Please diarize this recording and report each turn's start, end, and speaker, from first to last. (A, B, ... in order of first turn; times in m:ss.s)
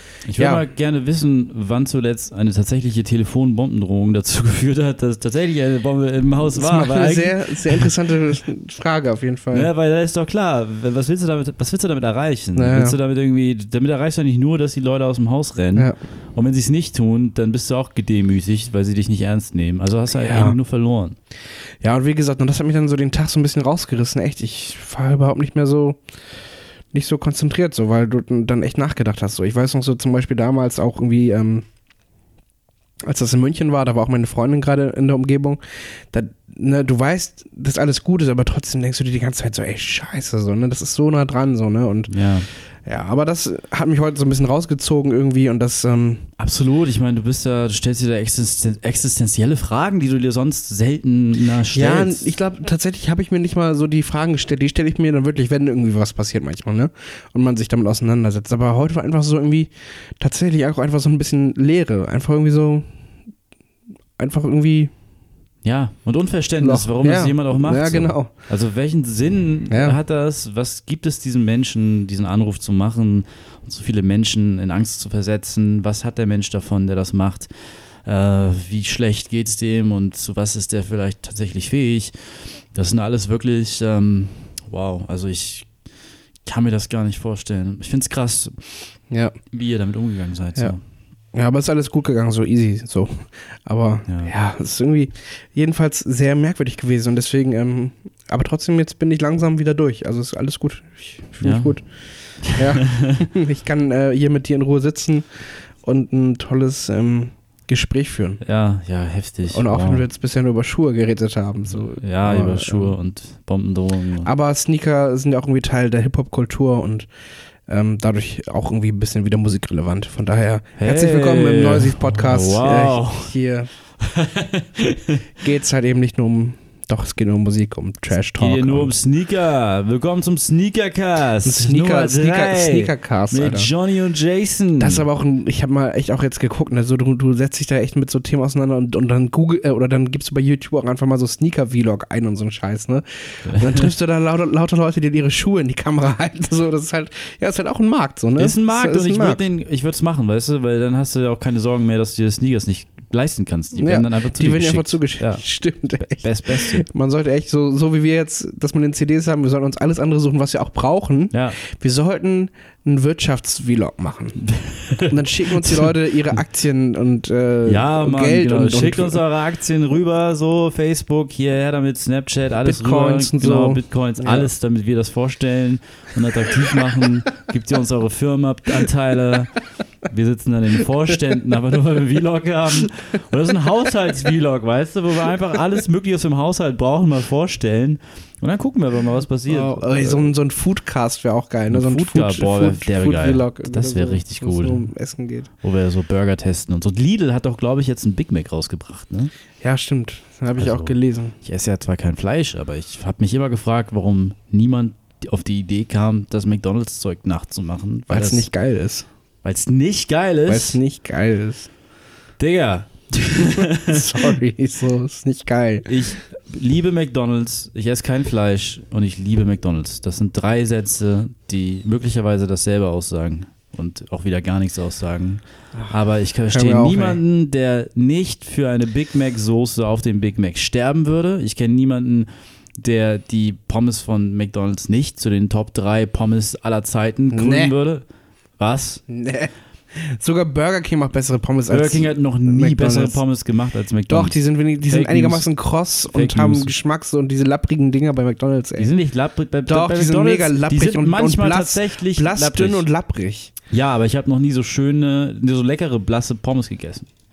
0:00.2-0:07.9 A
0:00.4-0:00.6 B
0:06.6-0:09.7 B
0:09.5-0:21.2 A
0:12.6-0:13.0 B
0:20.1-0:20.6 B
0:21.8-0:26.0 B
0:26.9-0:31.6 B
0:33.0-0:42.1 B
0:42.1-0:42.5 A
0:42.9-0:46.3 B
0:46.4-0:52.3 A
0:51.7-1:02.8 B
1:04.2-1:04.9 B
1:05.6-1:17.5 A
1:06.6-1:08.3 B
1:09.7-1:10.0 B
1:18.1-1:22.1 A
1:22.7-1:25.7 A
1:26.5-1:28.6 A
1:29.5-1:30.8 A
1:31.3-1:41.8 B
1:34.1-1:34.3 A
1:41.4-1:41.7 A
1:42.4-1:43.3 A
1:42.5-1:48.4 B
1:48.4-1:50.0 A
1:49.5-1:53.0 B
1:52.0-1:54.3 A
1:54.2-1:57.1 B
1:57.7-2:03.7 B
2:00.8-2:03.3 A
2:04.0-2:05.3 A
2:05.4-2:08.9 B
2:08.4-2:15.1 A
2:11.4-2:13.7 B
2:14.8-2:29.4 B
2:23.5-2:23.9 A
2:28.4-2:35.4 A
2:33.8-2:44.4 B
2:36.1-2:36.8 A
2:41.3-2:41.6 A
2:44.4-2:45.9 A
2:45.1-2:49.2 B
2:47.6-3:10.3 A
2:52.6-2:54.5 B
3:09.5-3:15.5 B
3:11.7-3:14.9 A
3:15.6-3:19.3 A
3:19.6-3:21.4 B
3:20.6-3:28.5 A
3:28.1-3:29.1 B
3:29.4-3:30.8 A
3:30.5-3:31.7 B
3:32.4-3:34.3 A
3:33.4-3:35.9 B
3:35.9-3:58.1 A
3:46.5-3:47.2 B
3:57.3-3:57.7 B
3:58.6-3:59.0 A
3:59.1-4:03.2 B
4:01.7-4:04.4 A
4:04.1-4:08.9 B
4:04.9-4:05.5 A
4:06.1-4:06.7 A
4:08.8-4:12.9 A
4:09.7-4:13.5 B
4:13.7-4:17.1 A